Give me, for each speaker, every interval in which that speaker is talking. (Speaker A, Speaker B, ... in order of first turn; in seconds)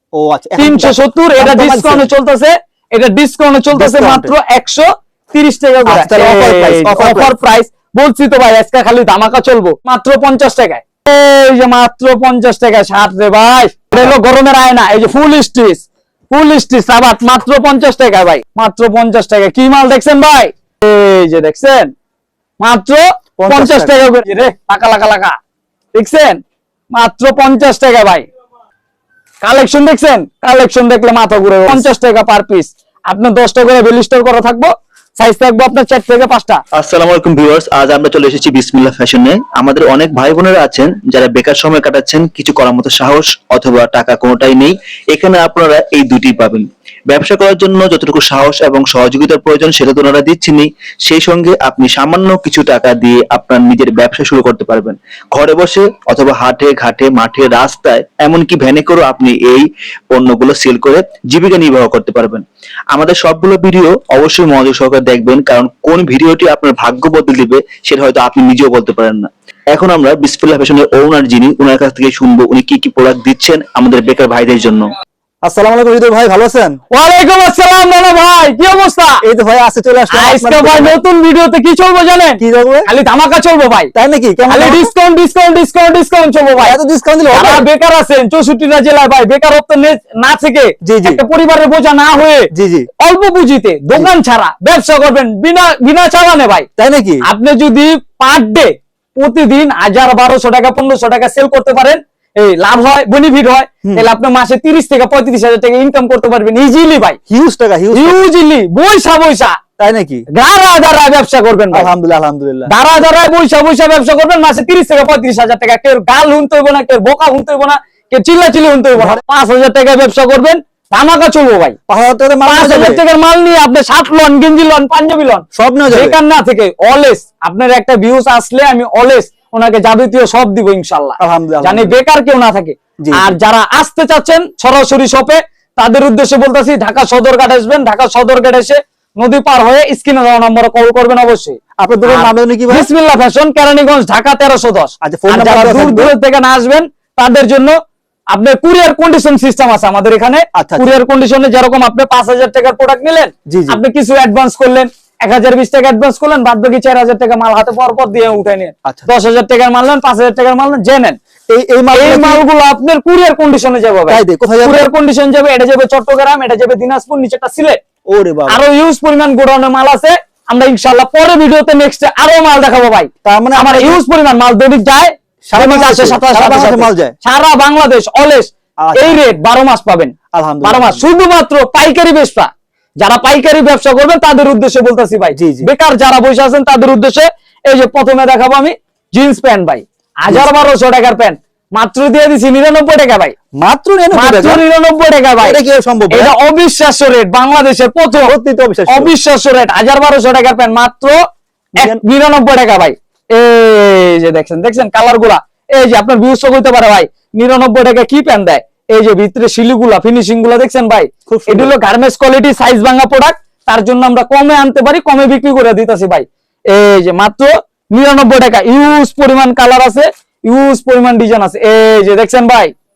Speaker A: 0.1-2.1, 3.7-4.3, 5.8-7.3, 23.4-23.9, 75.4-76.8, 79.2-81.0, 82.4-82.9, 83.9-84.9, 86.6-87.7, 90.8-91.2, 92.5-92.9, 96.8-97.2, 107.3-108.2, 109.8-110.2, 111.7-112.7, 121.9-123.0, 125.5-126.2, 131.2-131.9, 133.0-133.3, 141.8-142.9, 145.0-146.1, 150.5-150.9, 153.5-153.8, 161.5-162.4, 164.1-164.9, 168.1-168.6, 173.2-174.0, 175.5-177.1, 178.8-179.2, 180.3-181.0, 185.3-185.7, 193.6-194.6, 195.4-196.3, 198.3-199.1, 201.7-202.0, 211.3-211.7
Speaker B: 0.6-21.9, 22.6-25.3, 25.9-26.4, 26.9-28.2, 29.4-36.6, 76.9-79.2, 80.1-83.9, 84.5-86.8, 87.3-92.5, 93.0-96.7, 97.2-107.2, 107.9-109.5, 110.3-111.9, 112.7-121.8, 122.5-147.7, 148.3-161.2, 161.9-167.8, 168.5-182.5, 183.0-193.3, 194.1-195.6, 196.1-198.3, 198.9-201.2, 201.8-222.7
Speaker C: 36.7-74.9